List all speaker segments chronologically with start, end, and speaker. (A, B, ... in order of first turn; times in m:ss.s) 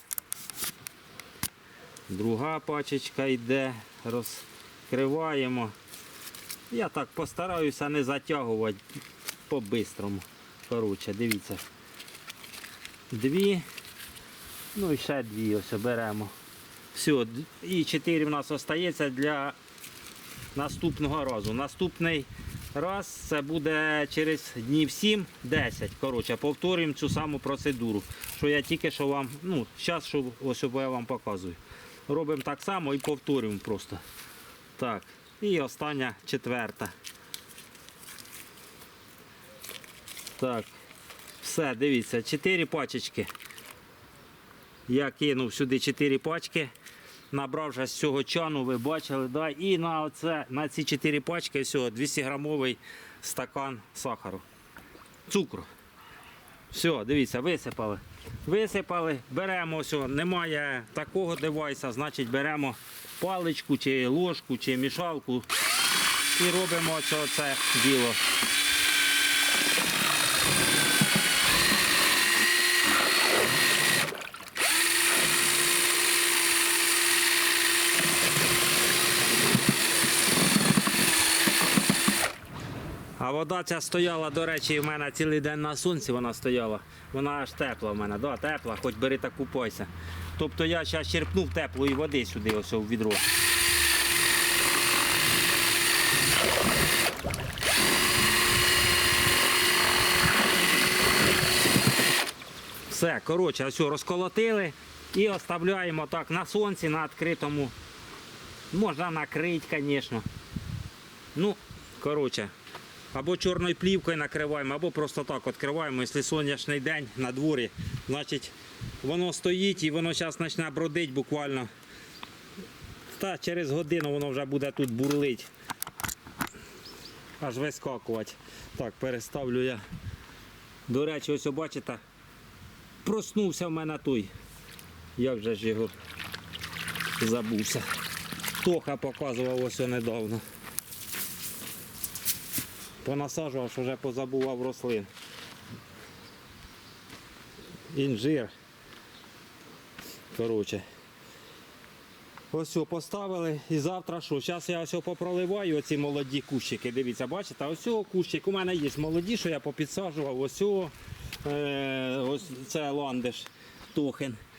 0:02.1-0:05.7 A
0:06.7-0:08.8 A
0:09.5-0:11.6 A
0:13.1-0:13.6 A
0:14.7-0:16.3 A
0:16.9-0:19.6 A
0:20.5-0:34.0 A
0:34.8-0:36.9 A
0:40.4-0:40.7 A
0:41.4-0:43.3 A
0:44.9-0:46.7 A
0:47.3-0:54.4 A
0:55.3-0:55.7 A
0:56.7-1:05.5 A
1:06.3-1:08.2 A
1:23.2-1:33.2 A
1:42.9-1:47.7 A
1:48.7-1:50.2 A
1:51.3-1:52.5 A
1:53.1-2:01.7 A
2:03.1-2:05.5 A
2:07.4-2:09.8 A
2:10.9-2:12.0 A
2:13.0-2:14.3 A
2:15.2-2:15.9 A
2:17.2-2:17.8 A
2:18.6-2:20.4 A
2:23.0-2:25.1 A
2:27.9-2:28.5 A
2:30.3-2:30.8 A
2:32.5-2:44.4 A